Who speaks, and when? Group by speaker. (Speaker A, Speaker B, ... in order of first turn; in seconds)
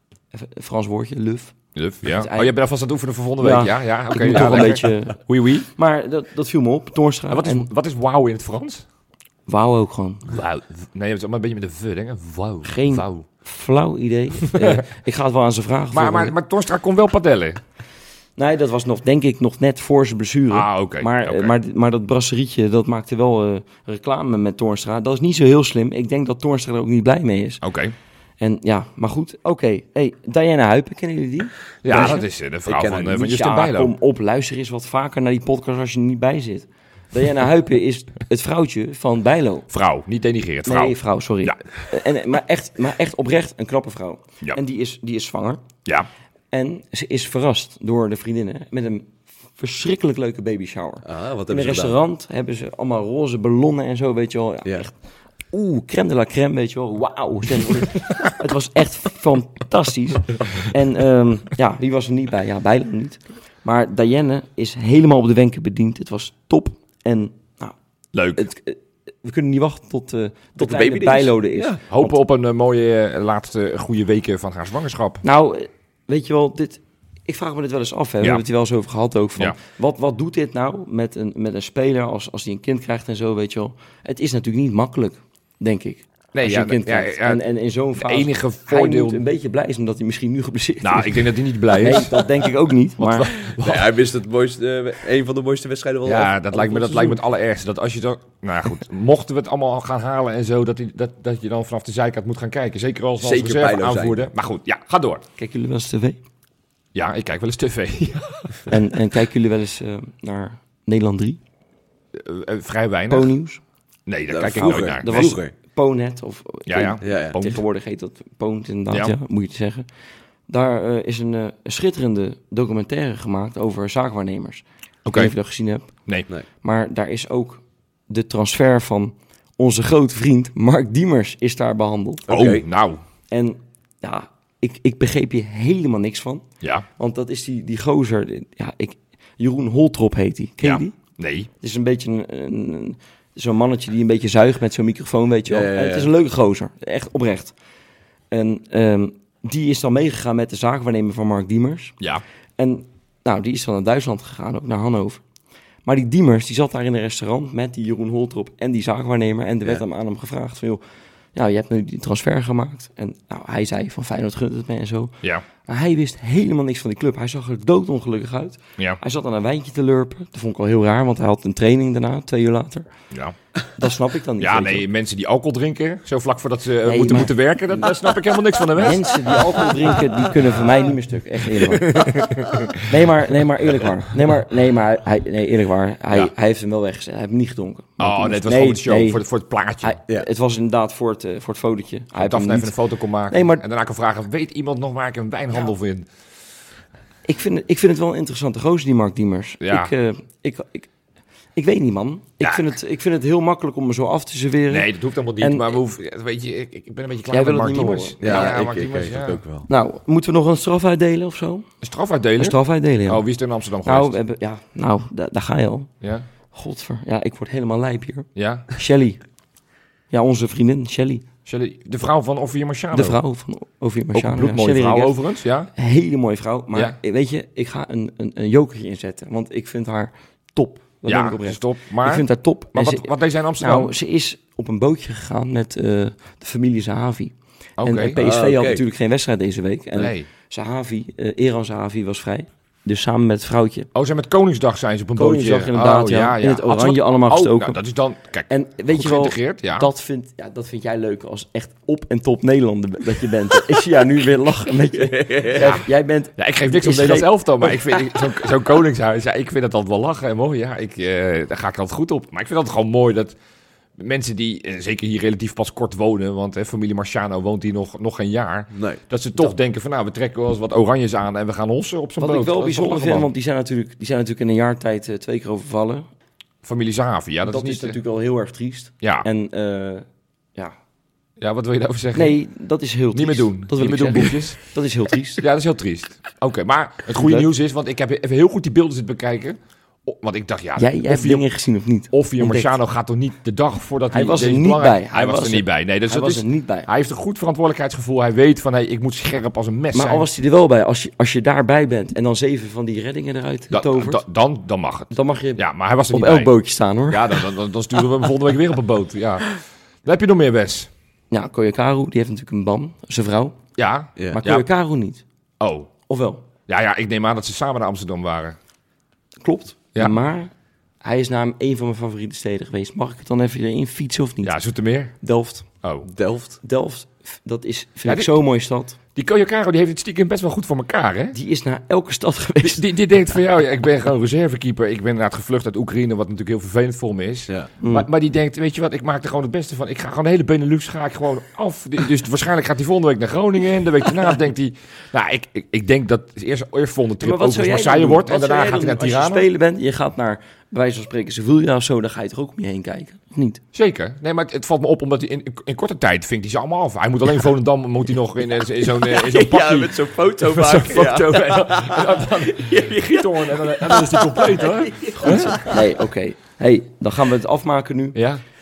Speaker A: 0.3-1.5, 2.1-2.5, 3.4-5.2, 5.7-7.7, 9.5-10.3, 12.6-16.3, 18.4-27.6, 28.4-32.2, 33.1-39.7, 40.6-45.6, 46.5-54.9, 55.5-67.7, 68.3-72.1, 75.2-93.3, 105.4-106.2, 108.7-111.4, 113.1-113.6, 114.6-119.9, 120.5-125.9, 126.6-132.3, 133.3-136.4, 137.0-140.9, 141.6-147.5, 148.3-151.9, 152.6-155.2, 155.8-160.8, 161.3-172.9, 173.8-174.8, 176.8-177.4, 178.7-189.2, 189.8-192.7, 193.3-193.6, 197.2-200.9, 201.5-205.8, 207.3-208.4, 209.7-211.7, 212.4-213.2, 213.8-215.9, 216.5-219.2, 220.1-221.2, 222.9-225.2, 225.7-243.9, 245.2-247.8, 248.5-258.0, 272.2-276.1, 277.4-280.8, 282.1-285.4, 287.1-287.5, 290.8-292.7, 294.1-296.9, 299.9-304.2, 305.1-307.4, 311.3-313.6, 314.3-315.2, 316.1-316.4, 319.4-324.5, 325.2-325.7, 326.6-329.0, 331.3-332.8, 337.8-338.1, 347.2-353.6, 365.1-368.2
Speaker B: 1.7-5.7, 7.3-8.8, 10.3-13.2, 14.5-14.8, 15.9-17.6, 20.5-21.5, 27.6-27.9, 31.8-33.9, 39.7-41.6, 68.1-68.5, 71.9-75.2, 86.3-87.4, 88.0-89.2, 90.8-92.3, 93.0-93.9, 96.0-105.2, 106.9-108.7, 112.1-113.3, 114.1-115.4, 116.7-117.6, 125.0-125.3, 132.3-133.0, 136.6-136.8, 140.6-141.5, 174.4-179.2, 181.7-182.8, 188.0-190.0, 192.2-196.1, 199.6-199.9, 202.4-202.7, 204.7-209.4, 211.8-214.2, 218.3-218.7, 221.4-223.2, 224.1-225.7, 231.1-233.9, 237.8-238.2, 239.9-240.3, 243.9-249.9, 255.6-263.3, 264.0-273.3, 276.6-278.0, 279.0-279.3, 281.4-282.4, 283.1-284.6, 285.4-291.4, 292.1-300.3, 303.7-306.5, 307.1-310.9, 313.8-314.7, 315.6-315.9, 316.7-318.6, 324.4-325.1, 325.8-326.1, 328.1-328.3, 329.1-331.4, 332.6-349.5, 353.7-365.7, 368.1-368.4
Speaker C: 31.9-33.2, 51.0-52.0, 70.6-71.8, 93.5-97.2, 103.2-104.3, 114.3-115.5, 117.0-117.4, 132.3-132.6, 145.5-146.1, 208.2-209.7, 238.2-238.8, 255.0-255.7, 268.7-269.0, 326.1-326.6, 358.9-365.8